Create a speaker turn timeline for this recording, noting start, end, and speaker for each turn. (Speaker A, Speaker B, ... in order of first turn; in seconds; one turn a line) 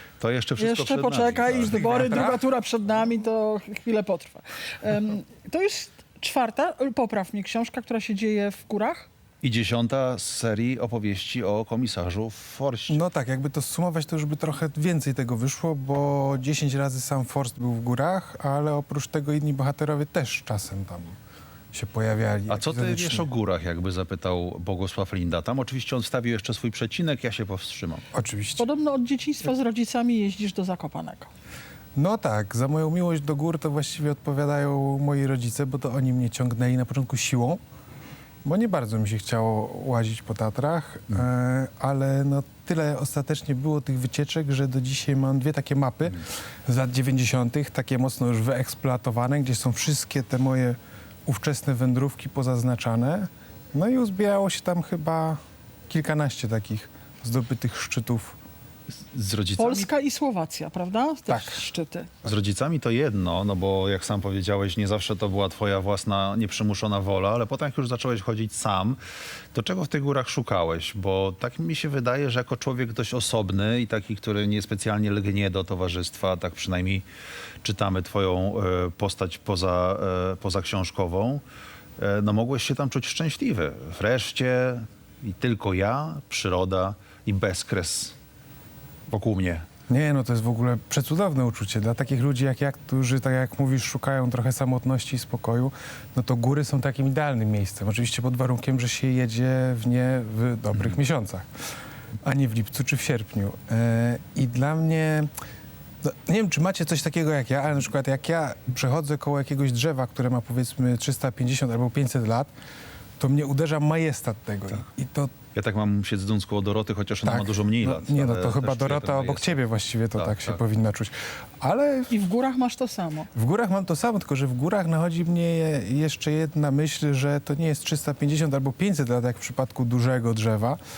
Speaker A: 0.2-2.3
Speaker B: 0.6-9.1
Speaker C: 1.5-2.5
Speaker A: 9.4-13.0
Speaker C: 12.9-21.1
Speaker C: 21.7-23.3
Speaker A: 22.5-28.0
Speaker C: 28.1-28.6
Speaker B: 28.6-31.3
Speaker C: 31.9-37.6
Speaker C: 38.4-58.4
Speaker A: 59.1-59.9
Speaker B: 59.6-62.1
Speaker C: 61.3-61.6
Speaker A: 62.2-69.0
Speaker A: 69.5-77.0
Speaker A: 77.6-81.4
Speaker A: 82.0-88.2
Speaker A: 89.1-89.6
Speaker C: 89.9-101.5
Speaker C: 102.2-105.3
Speaker C: 106.0-112.5
Speaker C: 113.2-115.3
Speaker A: 115.5-119.6
Speaker C: 117.2-122.1
Speaker A: 120.1-120.6
Speaker B: 122.1-123.3
Speaker C: 123.3-130.8